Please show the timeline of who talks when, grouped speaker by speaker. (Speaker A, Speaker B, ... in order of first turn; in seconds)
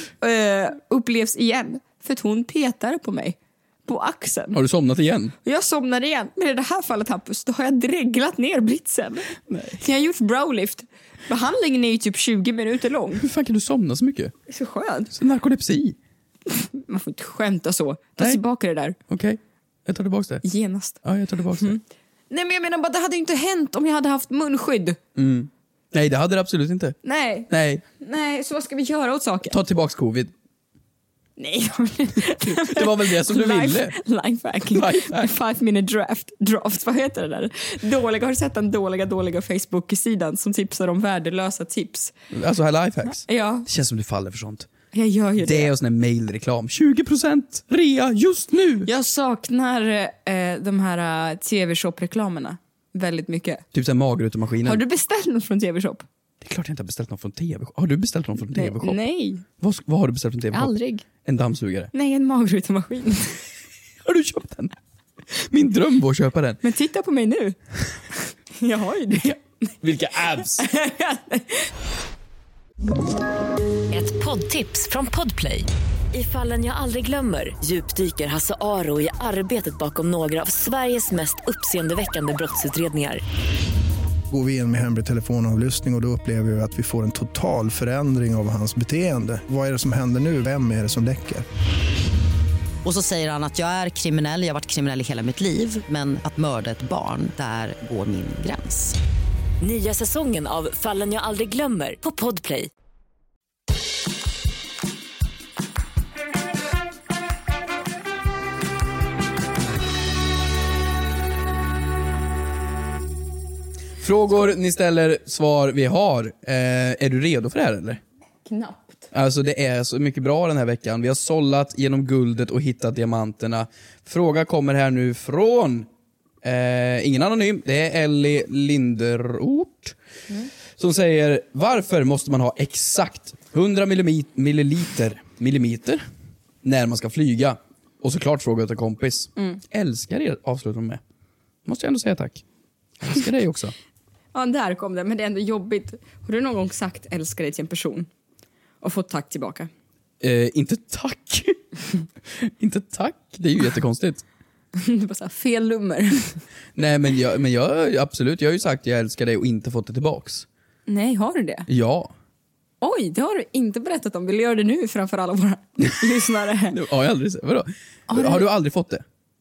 Speaker A: 0.2-4.6, 5.4-13.2, 14.5-15.1, 16.5-19.0, 20.4-21.0, 22.3-25.0, 27.0-29.6, 31.4-42.1, 43.1-43.7, 44.9-45.7, 48.8-53.6, 54.6-56.0, 58.5-59.4, 60.5-61.0, 61.9-63.4, 66.6-67.6, 68.2-69.4, 70.5-71.7, 118.5-119.1, 144.3-148.1, 148.8-149.7, 154.8-156.4, 160.9-161.7, 162.8-166.8, 168.1-168.5
Speaker B: 4.5-5.3, 9.5-9.8, 13.2-14.3, 15.1-16.0, 19.1-20.4, 21.0-21.8, 25.1-27.0, 27.5-27.8, 29.5-30.3, 32.4-34.0, 34.7-35.3, 42.3-44.7, 45.4-48.9, 53.7-54.8, 56.4-59.0, 59.5-60.7, 61.2-61.9, 64.0-64.8, 65.4-66.6, 69.8-70.7, 114.0-118.0, 119.1-125.9, 126.4-129.9, 130.8-136.0, 136.6-141.0, 141.6-142.4, 143.0-143.7, 150.2-151.6, 152.3-154.2, 156.8-160.4, 161.7-162.1, 166.7-169.0
Speaker C: 73.9-83.2, 99.6-102.7
Speaker D: 84.3-91.4
Speaker E: 92.8-99.0